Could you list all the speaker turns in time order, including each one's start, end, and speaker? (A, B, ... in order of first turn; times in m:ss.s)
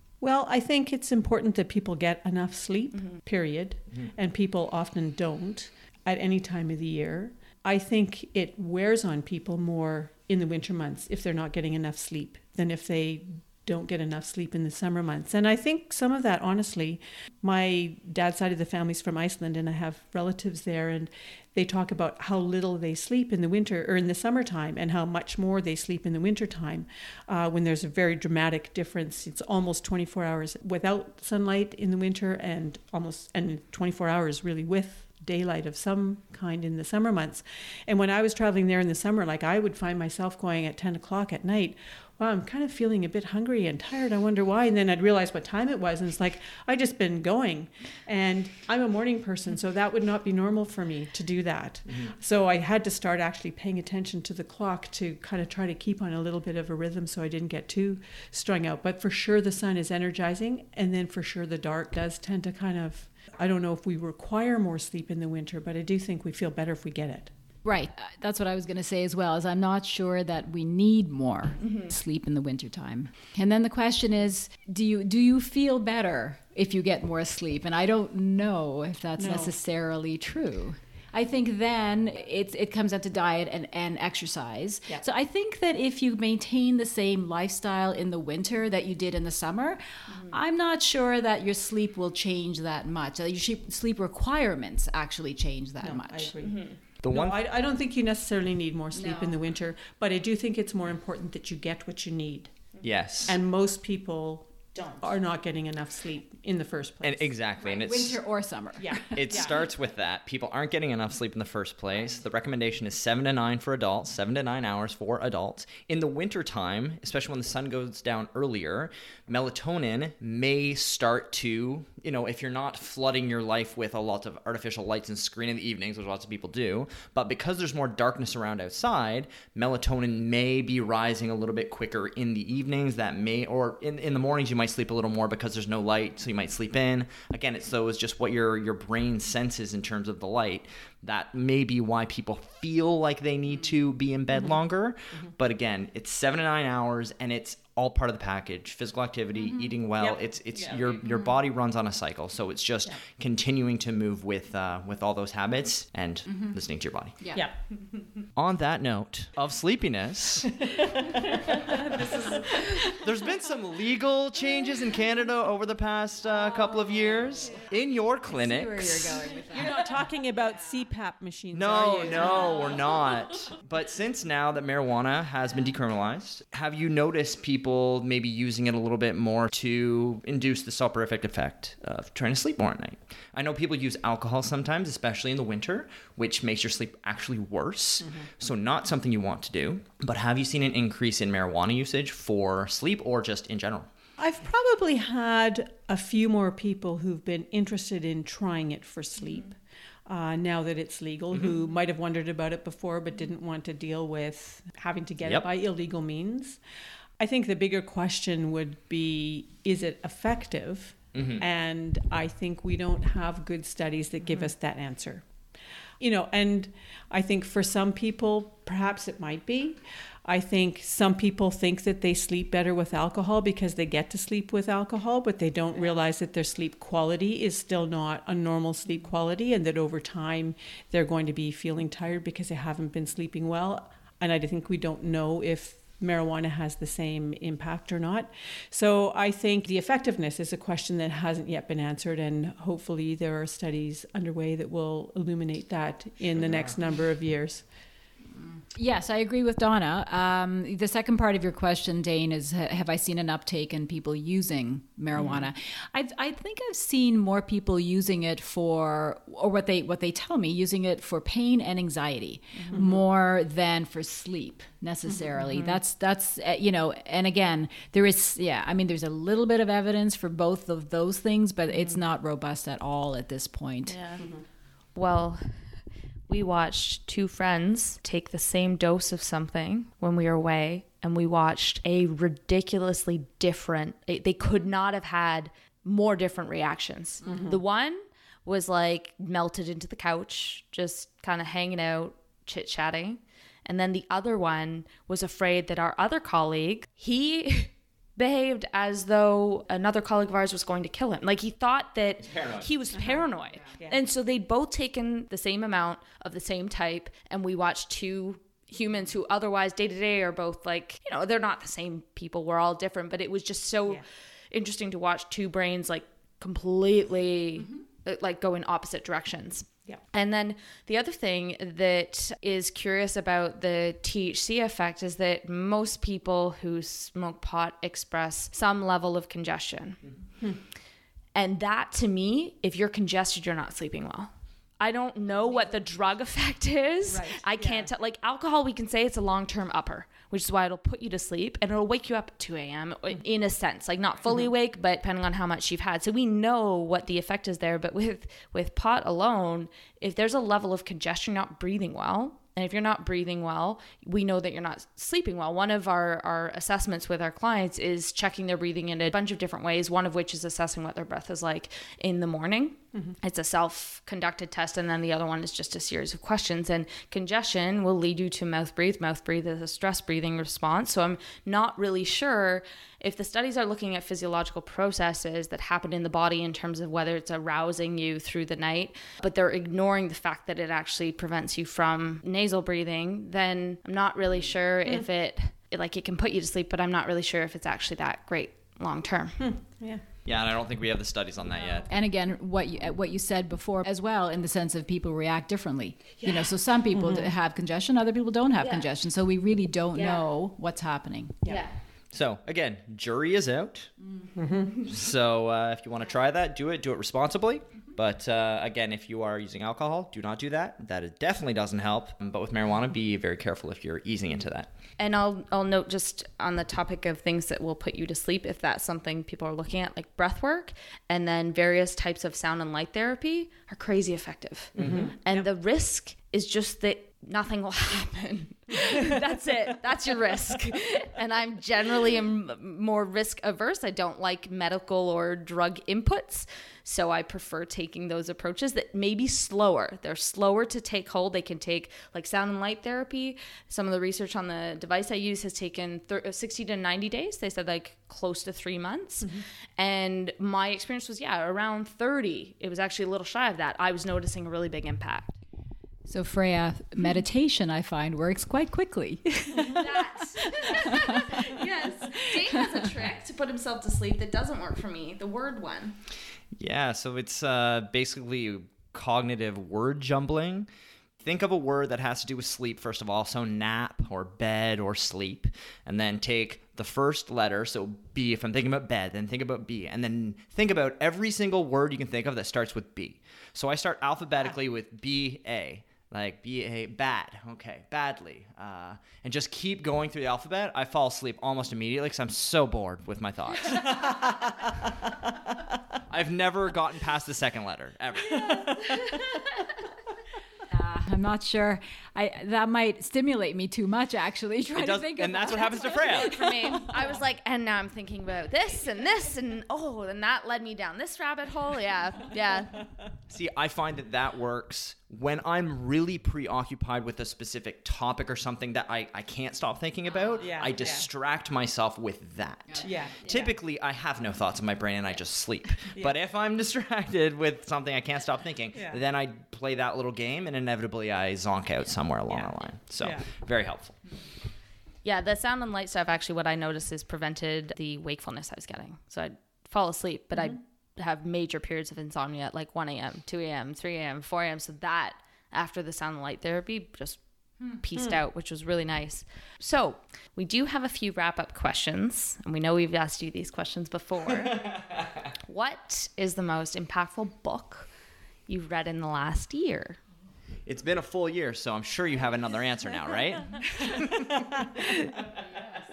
0:00.2-1:07.3 A
1:07.6-1:36.3 B
1:19.2-1:19.5 A
1:35.8-1:42.5 A
1:36.4-1:36.7 C
1:37.0-1:37.4 D
1:38.9-1:39.4 B
1:42.8-1:43.4 D
1:43.2-1:47.3 A
1:44.7-1:45.1 C
1:47.0-1:48.2 D
1:47.6-1:49.4 B
1:48.8-1:49.5 A
1:49.1-2:37.2 D
2:29.4-2:29.7 B
2:30.5-2:31.2 C
2:36.3-2:36.5 B
2:37.2-2:37.5 B
2:38.4-2:40.7 D
2:40.6-2:42.8 A
2:42.0-2:42.6 C
2:42.8-2:49.2 D
2:48.3-2:49.9 B
2:49.5-2:52.7 A
2:51.5-3:13.9 D
2:52.3-2:52.8 C
3:14.2-3:26.6 A
3:27.2-3:35.3 A
3:31.1-3:31.4 D
3:36.0-4:07.6 A
4:06.4-4:06.7 D
4:08.5-4:34.0 B
4:22.7-4:23.0 A
4:33.9-4:34.2 C
4:35.0-4:35.7 C
4:36.3-5:30.0 C
4:47.2-4:47.6 A
5:02.2-5:02.7 D
5:02.9-5:03.2 A
5:03.5-5:03.8 B
5:31.3-6:29.5 C
5:37.1-5:37.9 A
6:29.4-6:30.0 A
6:30.2-6:31.9 D
6:31.9-6:41.4 B
6:36.9-6:37.3 A
6:38.6-6:38.9 C
6:39.9-6:40.2 C
6:41.4-6:41.7 C
6:42.1-6:44.0 D
6:44.4-6:44.7 A
6:44.8-6:54.7 D
6:55.0-7:35.4 C
7:04.8-7:05.1 D
7:04.8-7:05.4 A
7:36.1-7:41.5 B
7:39.6-7:46.0 C
7:42.1-7:42.4 B
7:46.5-7:50.7 D
7:51.2-8:18.9 D
8:18.6-8:19.4 C
8:20.7-8:26.9 B
8:24.7-8:26.4 D
8:25.6-8:32.9 C
8:33.3-8:54.0 D
8:40.4-8:41.0 A
8:42.8-8:43.3 A
8:48.7-8:49.0 A
8:52.3-8:53.2 A
8:55.0-9:07.2 C
9:07.8-9:17.9 C
9:18.5-9:20.0 C
9:20.6-9:25.1 D